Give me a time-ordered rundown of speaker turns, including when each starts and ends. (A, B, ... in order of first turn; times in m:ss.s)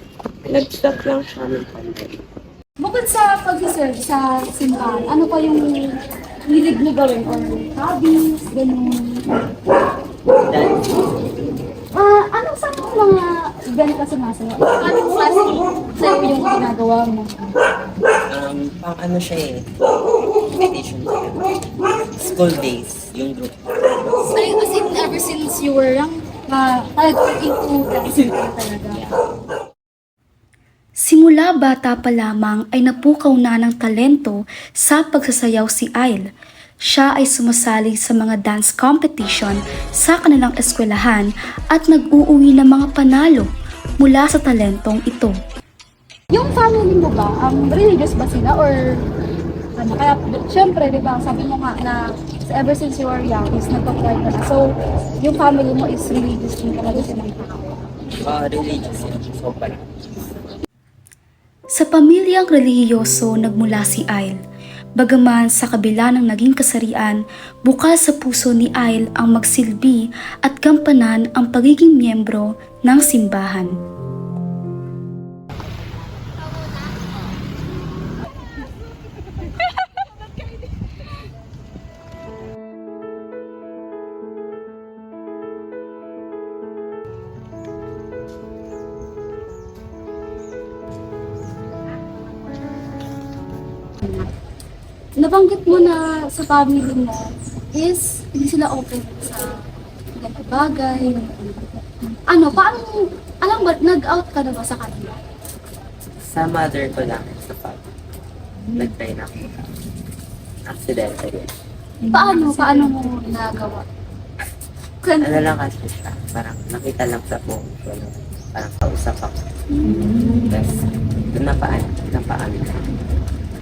0:00.4-0:02.2 A
0:02.8-0:09.3 B
0:10.5-0:10.9 A
0:11.9-0:17.6 B
0:18.3-0:19.6 A
0:20.4-0:21.4 A
0:22.2-0:23.6 A
0:24.3-0:29.1 B
0:31.0-0:36.2 C
0:36.8-0:45.4 C
0:46.3-0:49.0 B
0:49.8-0:57.8 B
0:58.2-1:00.0 A
1:01.7-1:04.4 C
1:05.0-1:13.7 C
1:34.0-1:34.3 B
1:35.2-1:39.6 B
1:40.2-1:41.6 B
1:42.3-1:45.2 B
1:46.2-1:47.8 A
1:48.7-1:49.7 A
1:50.6-1:51.5 A
1:52.1-1:53.8 B
1:55.0-1:55.5 B
1:55.2-1:59.4 A
1:59.9-2:00.4 B
2:00.4-2:02.9 A